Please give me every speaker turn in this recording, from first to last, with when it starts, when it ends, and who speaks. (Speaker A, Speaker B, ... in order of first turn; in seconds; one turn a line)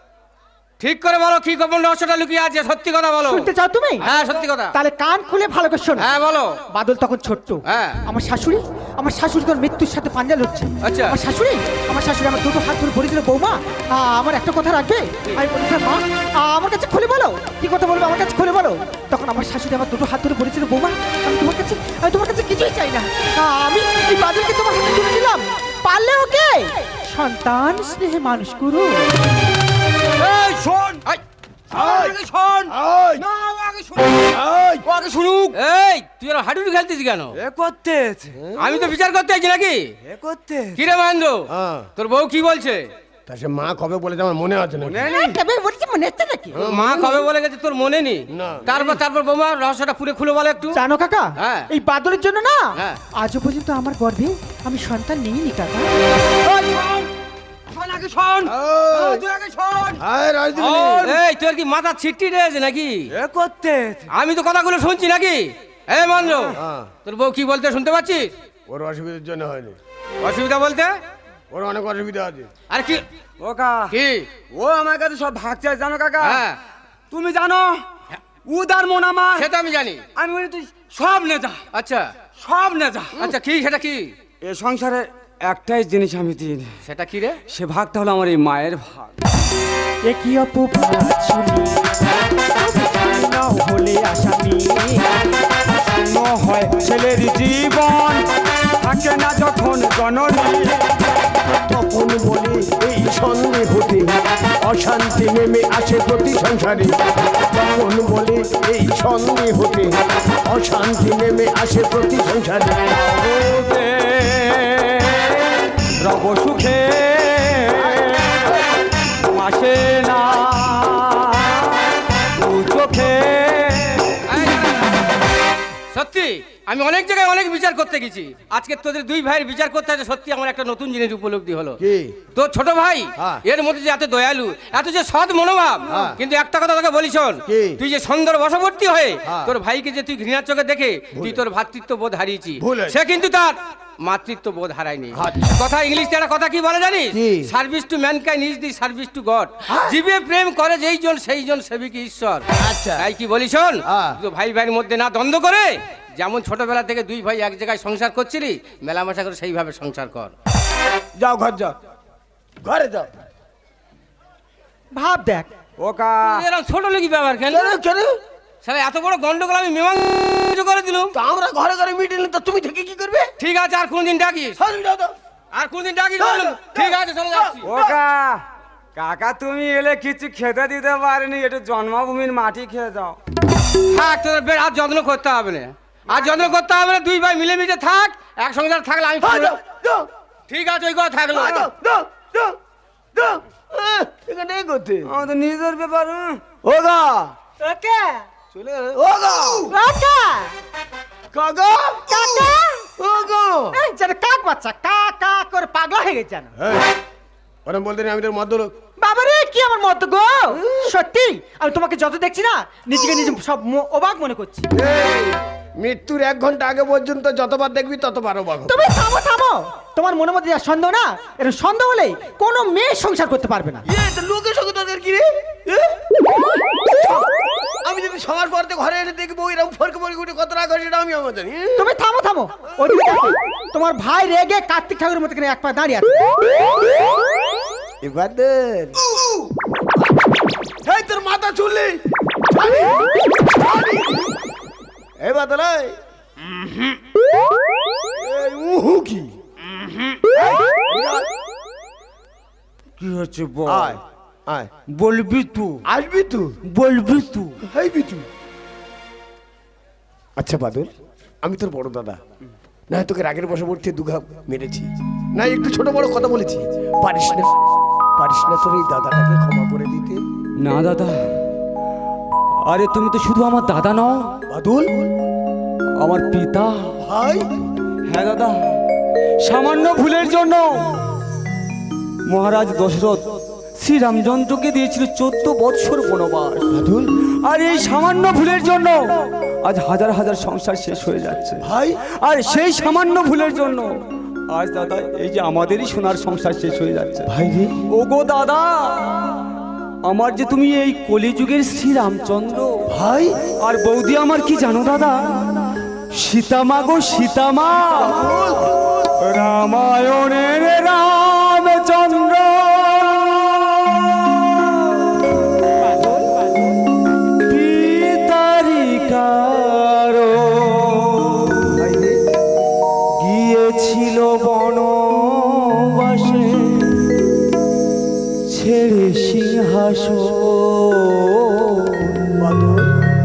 Speaker A: 0.8-3.5
Speaker B: 3.2-4.1
Speaker A: 4.0-4.7
Speaker B: 4.7-6.1
Speaker A: 6.0-6.6
Speaker B: 6.7-29.1
Speaker A: 7.7-8.0
Speaker A: 10.8-11.2
Speaker C: 30.2-31.0
Speaker C: 31.7-35.6
Speaker D: 31.7-32.1
Speaker D: 32.7-33.2
Speaker D: 34.3-34.9
Speaker A: 35.5-37.4
Speaker C: 37.3-38.4
Speaker D: 38.3-38.9
Speaker A: 38.6-39.9
Speaker C: 40.0-40.9
Speaker A: 40.8-42.8
Speaker D: 41.5-41.9
Speaker D: 43.3-45.0
Speaker C: 44.8-45.4
Speaker B: 45.0-46.6
Speaker D: 46.5-47.2
Speaker A: 46.5-50.8
Speaker D: 48.3-48.7
Speaker C: 48.7-49.0
Speaker B: 50.7-55.9
Speaker A: 51.4-51.7
Speaker C: 56.4-57.1
Speaker C: 57.7-60.0
Speaker D: 58.5-59.2
Speaker D: 60.0-61.1
Speaker A: 60.6-63.1
Speaker C: 60.6-61.2
Speaker C: 63.1-64.1
Speaker A: 64.1-68.3
Speaker C: 66.3-66.5
Speaker D: 66.5-66.9
Speaker D: 68.7-69.8
Speaker A: 70.2-71.0
Speaker D: 71.5-72.5
Speaker A: 72.7-73.0
Speaker C: 73.4-74.0
Speaker A: 73.9-74.3
Speaker C: 74.5-76.5
Speaker A: 76.2-76.6
Speaker C: 77.1-77.9
Speaker C: 78.5-79.5
Speaker A: 79.4-80.0
Speaker C: 80.2-81.6
Speaker A: 81.7-82.1
Speaker C: 82.4-83.2
Speaker A: 83.1-84.1
Speaker C: 84.4-86.8
Speaker A: 86.9-87.4
Speaker C: 87.5-89.2
Speaker B: 90.1-95.1
Speaker C: 95.7-100.9
Speaker D: 101.7-107.0
Speaker D: 107.5-112.9
Speaker C: 112.9-118.5
Speaker D: 117.8-118.6
Speaker C: 119.1-124.3
Speaker A: 124.3-125.1
Speaker A: 125.9-131.8
Speaker D: 131.8-132.2
Speaker A: 132.3-152.4
Speaker D: 135.9-136.2
Speaker D: 137.5-137.8
Speaker D: 139.3-139.5
Speaker D: 141.2-141.4
Speaker D: 142.6-143.0
Speaker D: 145.2-145.6
Speaker D: 147.1-147.5
Speaker D: 149.7-150.0
Speaker D: 152.6-153.1
Speaker A: 153.0-160.3
Speaker D: 153.9-154.2
Speaker D: 161.2-161.8
Speaker D: 162.6-163.1
Speaker B: 164.9-165.5
Speaker C: 165.8-166.4
Speaker A: 166.2-167.8
Speaker D: 167.5-168.2
Speaker A: 168.6-171.1
Speaker D: 171.1-173.3
Speaker A: 173.4-174.6
Speaker D: 174.6-175.1
Speaker A: 175.5-177.7
Speaker D: 176.2-177.8
Speaker C: 177.6-178.4
Speaker C: 178.9-183.2
Speaker A: 183.9-189.6
Speaker D: 186.1-186.4
Speaker D: 189.2-190.1
Speaker A: 190.5-191.7
Speaker D: 191.3-192.6
Speaker D: 193.2-195.1
Speaker C: 195.1-196.4
Speaker D: 196.6-197.3
Speaker B: 197.6-198.2
Speaker D: 198.5-199.7
Speaker B: 199.7-200.6
Speaker D: 201.3-203.8
Speaker B: 202.1-202.8
Speaker B: 203.7-206.5
Speaker D: 206.6-206.9
Speaker D: 207.7-208.7
Speaker B: 209.0-214.7
Speaker D: 210.5-210.9
Speaker D: 214.8-218.8
Speaker B: 218.7-223.8
Speaker D: 223.9-226.0
Speaker D: 226.9-227.3
Speaker D: 227.8-231.9
Speaker B: 231.8-236.3
Speaker D: 238.0-240.1
Speaker D: 240.8-244.3
Speaker D: 245.2-246.0
Speaker D: 248.2-249.4
Speaker C: 249.8-250.2
Speaker D: 250.4-251.3
Speaker C: 253.0-254.0
Speaker D: 253.7-254.7
Speaker C: 254.9-255.8
Speaker D: 255.9-256.6
Speaker C: 256.7-257.6
Speaker D: 257.7-258.3
Speaker D: 260.4-262.2
Speaker D: 262.9-267.6
Speaker D: 268.2-270.2
Speaker C: 270.6-271.4
Speaker C: 272.6-274.3
Speaker D: 274.5-275.1
Speaker C: 276.0-276.9
Speaker D: 277.0-277.5
Speaker C: 278.1-278.8
Speaker C: 279.4-280.9
Speaker C: 282.3-297.3
Speaker D: 286.7-287.1
Speaker D: 291.6-292.0
Speaker D: 297.3-297.8
Speaker C: 297.9-299.5
Speaker C: 300.1-302.9
Speaker D: 302.9-303.5
Speaker C: 303.6-308.4
Speaker D: 307.9-308.9
Speaker C: 309.2-316.1
Speaker C: 317.4-321.8
Speaker D: 321.7-322.2
Speaker C: 323.2-327.1
Speaker C: 328.5-332.3
Speaker D: 332.3-332.9